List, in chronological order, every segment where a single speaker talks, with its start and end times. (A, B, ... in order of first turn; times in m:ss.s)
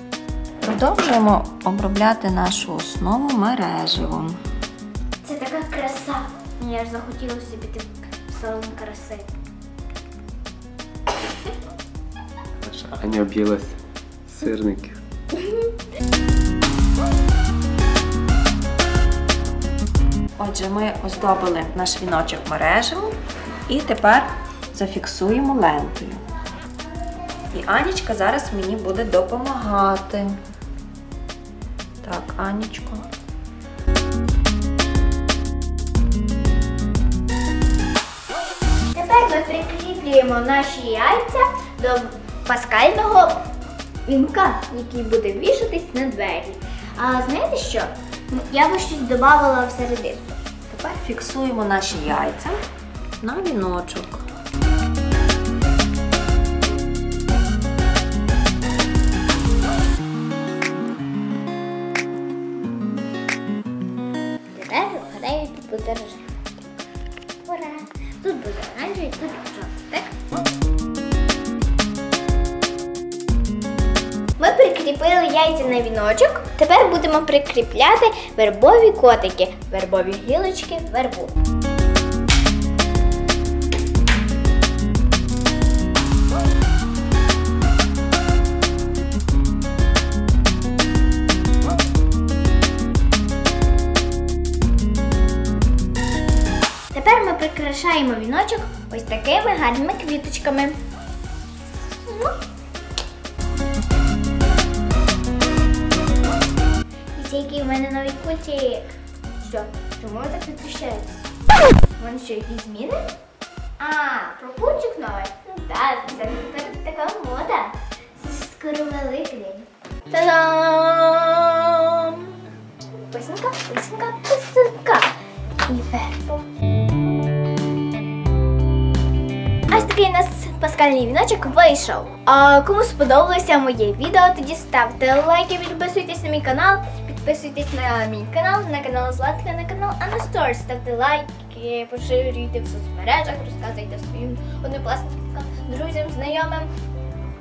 0:00.6-0:04.4 A
0:05.2-0:09.3 B
0:12.6-0:15.0 C
0:20.4-0:23.2 A
0:23.7-0:26.2 A
0:27.5-0:30.4 A
0:32.0-0:33.1 A
0:38.9-0:43.4 B
0:44.0-0:50.3 B
0:50.7-0:52.6 A
0:53.2-0:54.2 A
1:04.5-1:06.3 B
1:07.4-1:10.1 B
1:14.4-1:21.3 B
1:36.9-1:40.8 B
1:42.0-1:42.4 B
1:47.2-1:48.9 B
1:49.4-1:51.3 B
1:52.0-1:53.1 B
1:53.8-2:02.3 B
2:03.1-2:05.1 B
2:05.6-2:06.4 B
2:09.7-2:26.7 B